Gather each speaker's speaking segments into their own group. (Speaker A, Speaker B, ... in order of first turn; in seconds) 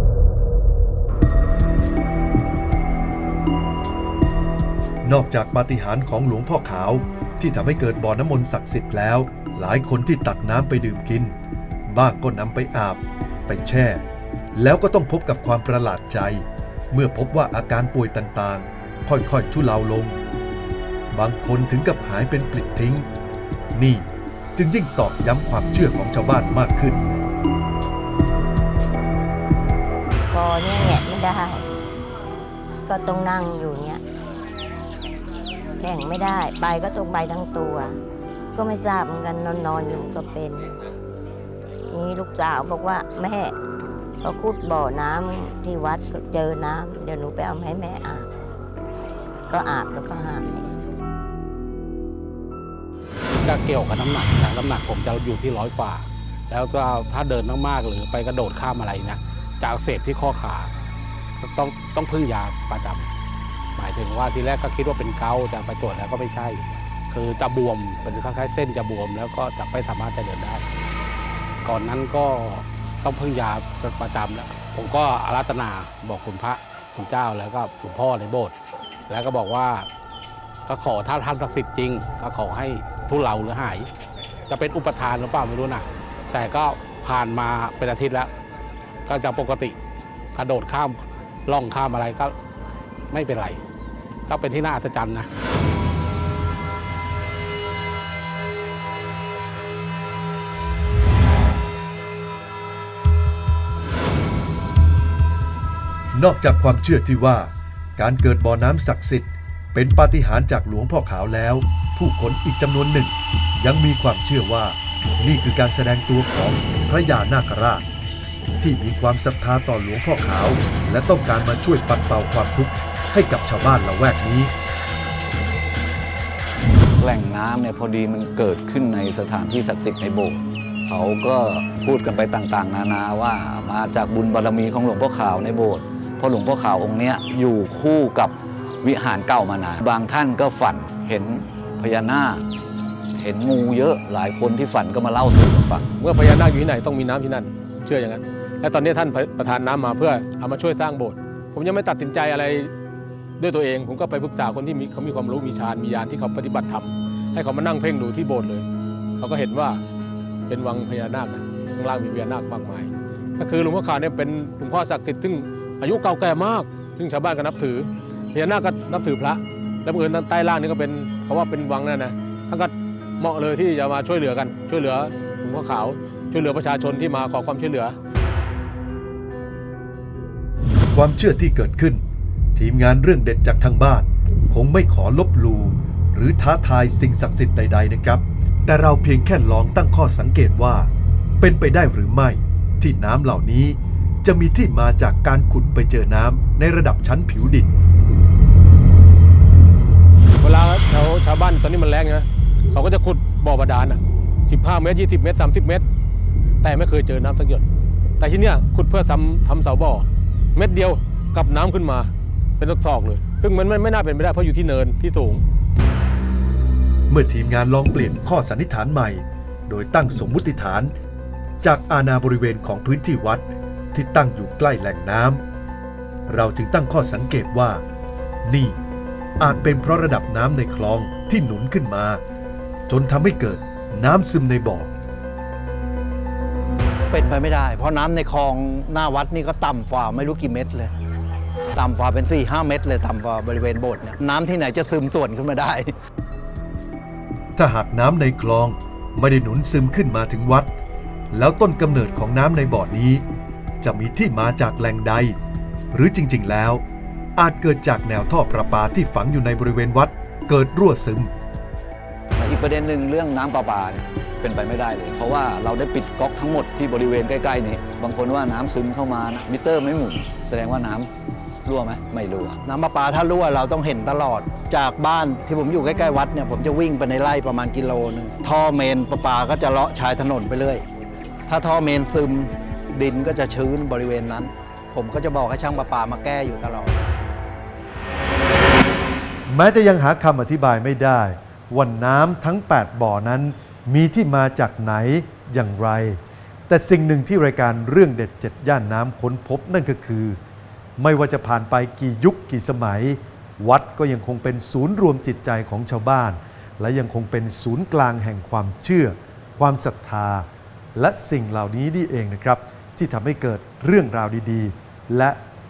Speaker A: 5.0-11.3, 11.9-20.2, 21.1-23.1, 23.7-27.0, 106.1-117.8, 118.6-124.5, 180.9-182.0, 182.5-197.7, 217.1-220.9, 221.6-225.4, 226.3-227.8, 228.4-228.8, 229.4-232.2, 232.9-234.9, 247.6-250.7, 251.3-253.2, 253.8-255.4, 255.9-256.8, 257.4-261.3, 289.5-300.4, 301.0-315.4
Speaker B: 30.3-31.7, 32.9-34.0, 35.8-38.0, 38.5-40.7, 41.9-43.5, 44.2-48.2, 49.5-50.6
Speaker C: 53.4-60.7, 61.4-63.1, 63.8-70.6, 71.6-78.5, 79.1-79.9, 80.7-83.9, 84.5-88.3, 89.1-89.8, 90.3-92.3, 93.1-93.6, 94.3-95.3
Speaker D: 127.0-142.4, 143.1-145.9, 262.4-271.1, 271.6-272.6
Speaker E: 146.0-152.7, 153.4-158.6, 159.2-159.8, 160.5-177.9, 200.4-205.8, 206.6-207.6, 208.2-215.4
Speaker F: 237.1-240.9, 241.7-245.9, 272.6-280.8, 281.5-287.0